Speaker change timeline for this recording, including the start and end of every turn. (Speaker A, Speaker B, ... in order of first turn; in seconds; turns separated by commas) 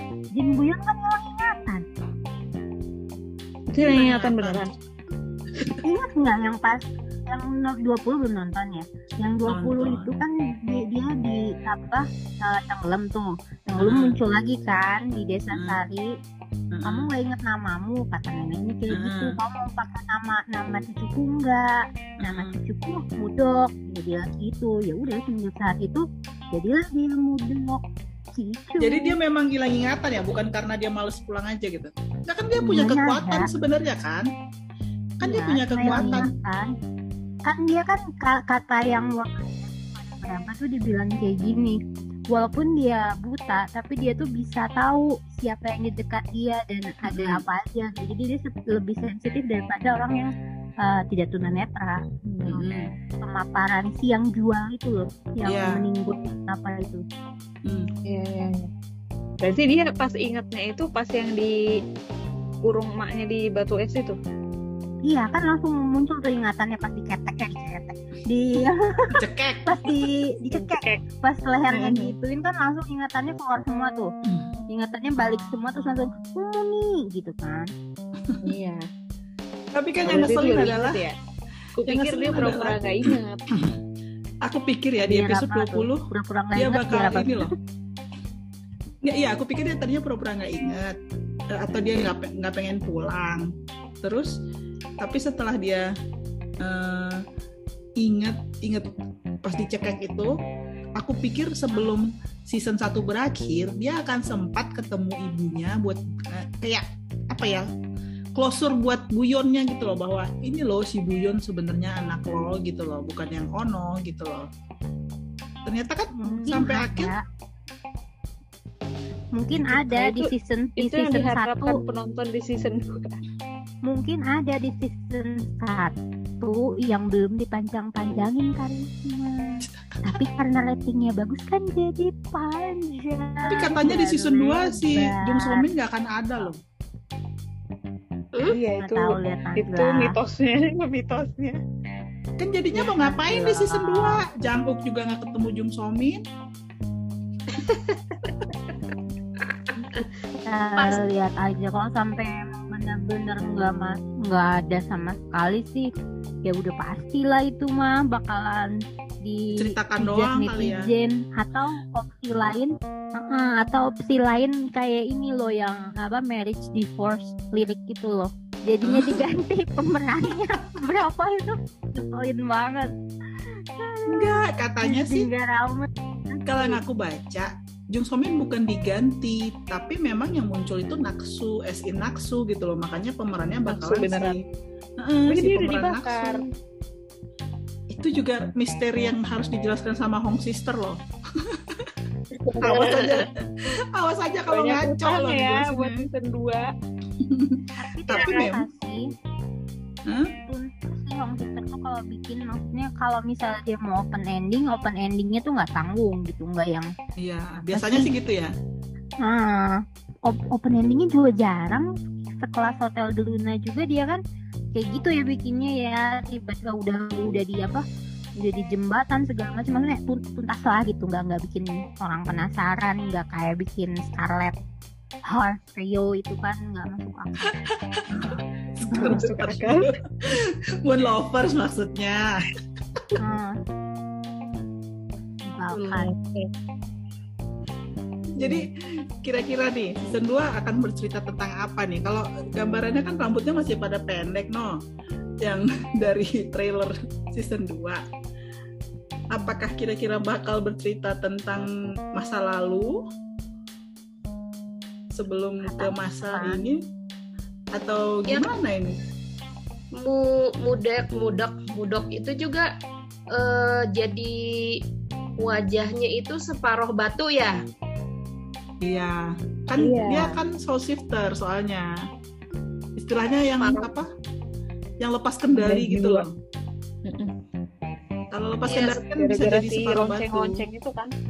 Speaker A: 0.3-1.9, Speaker B: 3.7-4.7, Speaker C: 3.8-4.7, Speaker A: 5.8-16.1, Speaker C: 9.5-10.1, Speaker C: 13.8-14.2, Speaker C: 15.5-15.8, Speaker C: 16.7-17.1, Speaker A: 16.9-29.1, Speaker C: 18.9-19.3, Speaker C: 22.2-22.6, Speaker C: 28.8-34.3, Speaker A: 32.6-33.5, Speaker C: 35.2-36.3, Speaker A: 35.2-36.7, Speaker A: 37.5-41.8, Speaker A: 42.3-57.0, Speaker C: 47.0-47.4, Speaker C: 52.5-52.9, Speaker C: 55.5-55.9, Speaker B: 58.1-58.7, Speaker B: 59.4-61.5, Speaker B: 62.6-64.2, Speaker A: 65.1-69.2, Speaker C: 69.1-69.9, Speaker A: 69.7-74.1, Speaker B: 70.5-71.0, Speaker B: 71.7-72.1, Speaker A: 74.7-77.7, Speaker C: 78.2-78.5, Speaker B: 78.4-78.8, Speaker C: 79.7-81.0, Speaker B: 80.1-81.2, Speaker B: 81.8-83.5, Speaker C: 81.8-83.7, Speaker C: 84.4-87.5, Speaker A: 85.1-87.5, Speaker C: 89.0-91.0, Speaker C: 91.5-93.5, Speaker C: 94.0-94.3, Speaker C: 95.0-95.9, Speaker C: 96.6-97.2, Speaker C: 98.0-98.9, Speaker C: 99.4-100.3, Speaker C: 101.0-107.7, Speaker C: 108.4-114.5, Speaker C: 115.7-117.1, Speaker A: 116.2-117.2, Speaker B: 116.3-116.8, Speaker A: 119.3-121.8, Speaker B: 119.9-123.2, Speaker A: 123.9-135.7, Speaker C: 133.5-136.6, Speaker B: 138.5-141.6, Speaker A: 138.8-140.2, Speaker C: 142.4-146.2, Speaker A: 142.7-144.2, Speaker D: 147.5-148.3, Speaker D: 149.4-150.1, Speaker A: 150.4-155.9, Speaker D: 150.8-151.0, Speaker A: 156.4-172.9, Speaker C: 159.5-160.9, Speaker C: 168.8-169.3, Speaker A: 173.8-176.8, Speaker C: 174.1-175.3, Speaker C: 176.5-184.4, Speaker B: 183.7-184.4, Speaker C: 185.0-186.4, Speaker B: 185.3-186.5, Speaker C: 187.9-191.9, Speaker D: 192.3-193.2, Speaker C: 192.6-196.0, Speaker B: 194.5-196.7, Speaker C: 197.2-198.7, Speaker A: 197.8-199.0, Speaker A: 200.4-206.9, Speaker C: 207.2-208.5, Speaker A: 207.7-208.1, Speaker A: 209.2-214.2, Speaker A: 214.8-217.8, Speaker A: 218.4-224.5, Speaker A: 225.3-227.6, Speaker C: 227.9-232.2, Speaker A: 228.9-229.2, Speaker B: 229.0-229.9, Speaker A: 233.2-233.5, Speaker A: 235.4-236.1, Speaker D: 235.7-236.5, Speaker C: 238.3-238.7, Speaker B: 238.4-238.7, Speaker C: 239.2-244.7, Speaker C: 245.4-248.0, Speaker C: 249.3-253.0, Speaker C: 255.1-256.8, Speaker A: 255.6-256.6, Speaker C: 257.8-259.0, Speaker D: 259.9-262.7, Speaker D: 263.3-264.8, Speaker D: 265.4-267.6, Speaker C: 268.8-271.9, Speaker B: 269.8-270.4, Speaker C: 273.0-274.1, Speaker D: 273.6-273.9, Speaker C: 275.0-276.3, Speaker B: 275.5-276.2, Speaker B: 277.1-277.3, Speaker C: 278.3-280.6, Speaker D: 278.7-279.1, Speaker B: 279.2-281.1